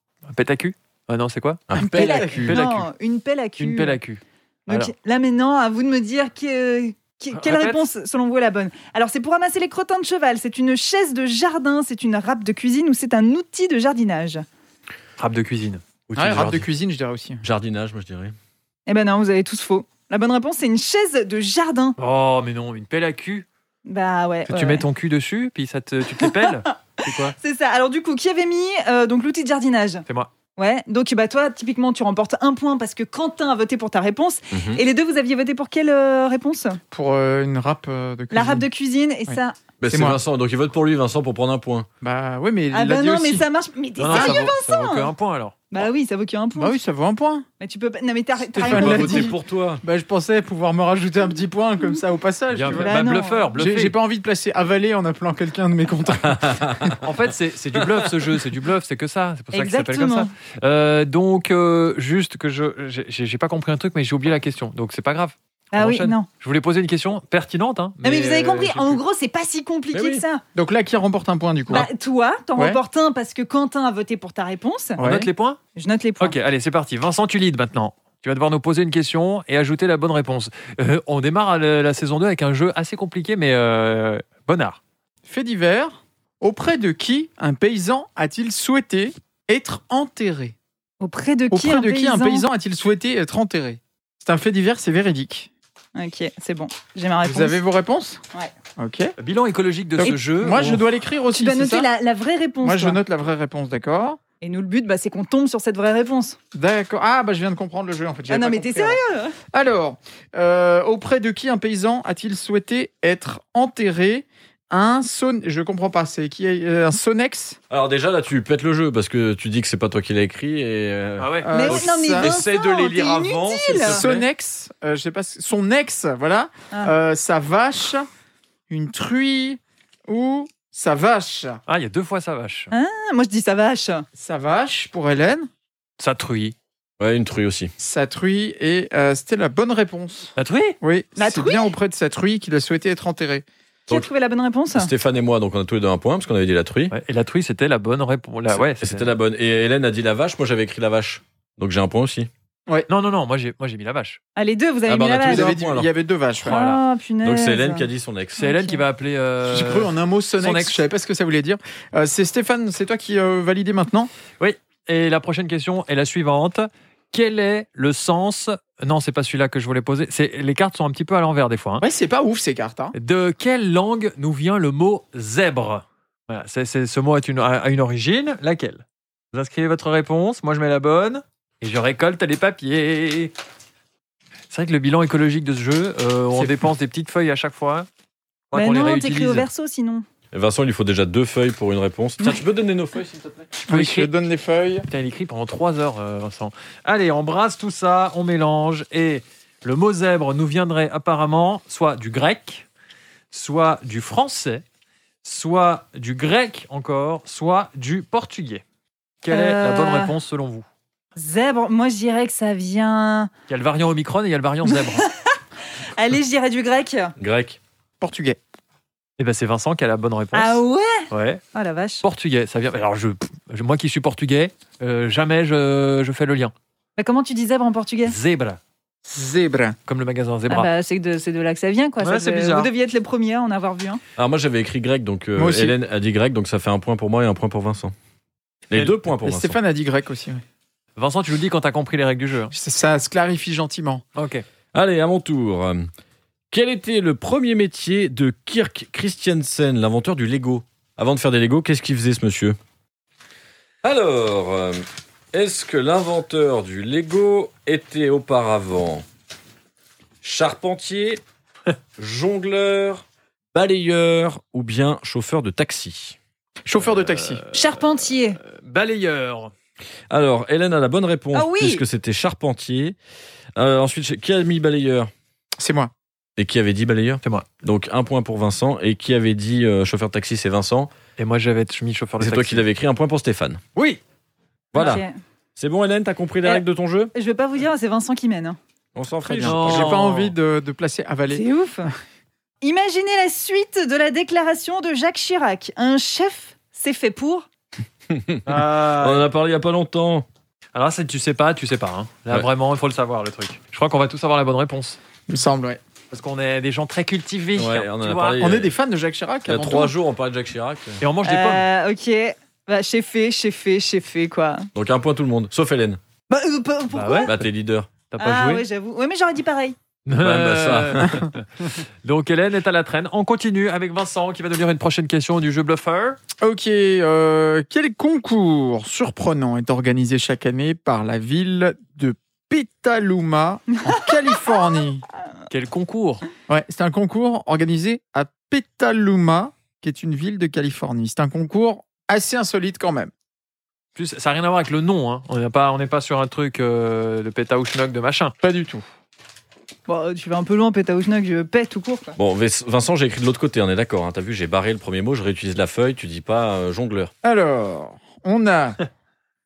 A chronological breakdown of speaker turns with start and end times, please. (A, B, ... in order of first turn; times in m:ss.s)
0:00.2-0:02.9 A
0:01.7-0:02.4 B
0:01.8-0:02.6 C
0:01.8-0:04.0 D
0:03.6-0:04.9 A
0:04.7-0:14.4 D
0:07.3-0:07.8 A
0:15.2-0:15.8 A
0:16.1-0:16.7 B
0:16.2-0:17.4 C
0:17.4-0:18.4 B
0:18.9-0:22.0 D
0:22.0-0:23.4 A
0:23.8-0:24.8 D
0:24.5-0:27.3 A
0:26.2-0:26.7 D
0:27.2-0:30.0 D
0:30.6-0:36.8 D
0:34.5-0:34.8 B
0:36.9-0:38.7 C
0:38.3-0:39.6 D
0:39.8-0:41.9 B
0:39.9-0:40.2 C
0:42.0-0:43.4 C
0:42.7-0:45.1 D
0:44.0-0:45.6 A
0:44.1-0:44.5 C
0:45.7-0:46.7 D
0:46.6-0:47.4 C
0:47.6-0:49.3 D
0:48.5-0:53.0 C
0:48.6-0:49.8 B
0:52.5-0:54.0 A
0:52.7-0:53.5 D
0:53.6-0:56.9 C
0:56.2-0:57.0 B
0:57.0-1:09.0 A
0:57.7-0:58.3 B
0:59.5-1:00.3 D
1:05.7-1:06.3 D
1:08.0-1:10.4 D
1:09.9-1:10.2 B
1:10.5-1:11.9 C
1:11.7-1:15.0 D
1:15.0-1:15.3 C
1:15.0-1:15.6 A
1:15.8-1:16.4 D
1:16.2-1:24.8 A
1:25.3-1:30.5 C
1:31.0-1:32.5 D
1:31.5-1:35.5 C
1:35.9-1:37.6 D
1:37.2-1:38.2 C
1:38.8-1:39.1 C
1:39.2-1:40.8 A
1:40.0-1:41.9 C
1:41.3-1:43.0 D
1:42.6-1:44.2 C
1:44.4-1:46.4 D
1:46.5-1:49.0 C
1:48.3-1:49.4 D
1:49.5-1:57.6 C
1:57.7-2:04.2 B
2:01.2-2:01.5 A
2:01.4-2:02.3 C
2:01.5-2:04.0 D
2:03.8-2:08.1 C
2:08.7-2:11.6 C
2:11.7-2:12.7 A
2:12.7-2:14.0 D
2:14.2-2:15.5 C
2:16.0-2:16.5 A
2:17.0-2:17.7 B
2:17.8-2:23.4 C
2:20.4-2:20.8 A
2:21.2-2:21.7 D
2:23.9-2:24.9 D
2:24.7-2:26.9 B
2:26.9-2:29.1 A
2:28.5-2:32.3 B
2:32.9-2:34.2 A
2:34.4-2:35.5 D
2:34.9-2:35.9 B
2:35.2-2:36.6 C
2:36.4-2:37.9 D
2:36.4-2:36.8 A
2:37.2-2:38.4 B
2:38.4-2:38.8 D
2:38.4-2:40.8 A
2:39.4-2:44.1 C
2:44.4-2:51.8 A
2:51.8-2:52.9 C
2:52.9-3:03.3 A
3:04.5-3:07.9 A
3:08.5-3:09.5 A
3:08.5-3:10.0 D
3:10.3-3:13.5 B
3:13.7-3:14.8 C
3:13.7-3:14.1 A
3:14.9-3:22.6 A
3:23.3-3:24.6 A
3:25.2-3:28.6 A
3:29.2-3:30.6 A
3:29.3-3:30.1 D
3:31.2-3:33.3 D
3:33.5-3:35.0 A
3:34.6-3:37.1 D
3:37.2-3:37.6 B
3:38.0-3:38.4 C
3:39.2-3:41.4 A
3:40.3-3:42.0 D
3:42.0-3:46.5 A
3:47.0-3:48.2 D
3:48.0-3:48.6 A
3:49.0-3:49.8 C
3:49.9-3:50.7 A
3:50.5-3:54.0 D
3:52.0-3:52.7 A
3:54.2-3:57.9 B
3:55.4-3:55.7 C
3:58.7-3:59.6 B
3:59.2-4:00.4 C
4:01.0-4:02.5 A
4:02.5-4:04.0 C
4:04.2-4:04.4 A
4:04.7-4:05.9 B
4:06.5-4:12.6 B
4:13.8-4:19.0 B
4:20.2-4:21.2 B
4:22.0-4:26.2 B
4:26.6-4:27.4 C
4:26.9-4:29.5 A
4:27.5-4:28.4 D
4:30.1-4:33.0 B
4:31.3-4:31.8 D
4:33.6-4:35.1 B
4:35.6-4:35.9 C
4:36.4-4:40.9 B
4:41.2-4:42.6 A
4:42.2-4:43.6 B
4:43.7-4:44.0 A
4:44.7-4:45.0 B
4:44.7-4:45.1 D
4:45.6-4:47.1 B
4:47.1-4:48.6 D
4:48.9-4:50.0 B
4:49.2-4:51.4 C
4:49.4-4:50.3 A
4:51.3-4:51.9 D
4:52.6-4:57.4 D
4:58.1-5:00.2 B
4:58.4-4:59.3 A
5:00.7-5:05.0 A
5:05.3-5:05.8 C
5:06.1-5:08.4 A
5:07.5-5:08.7 B
5:08.4-5:09.9 C
5:09.4-5:11.0 B
5:11.0-5:11.6 A
5:11.2-5:14.7 D
5:14.7-5:16.0 B
5:16.3-5:17.3 D
5:16.9-5:17.4 A
5:17.2-5:17.9 B
5:18.1-5:18.6 A
5:18.2-5:19.8 D
5:20.0-5:26.2 A
5:20.2-5:21.2 B
5:26.4-5:35.0 C
5:35.5-5:36.2 A
5:36.5-5:43.1 C
5:43.9-5:48.3 A
5:48.4-5:48.8 C
5:49.9-5:52.2 D
5:52.2-5:57.1 B
5:57.2-5:58.8 C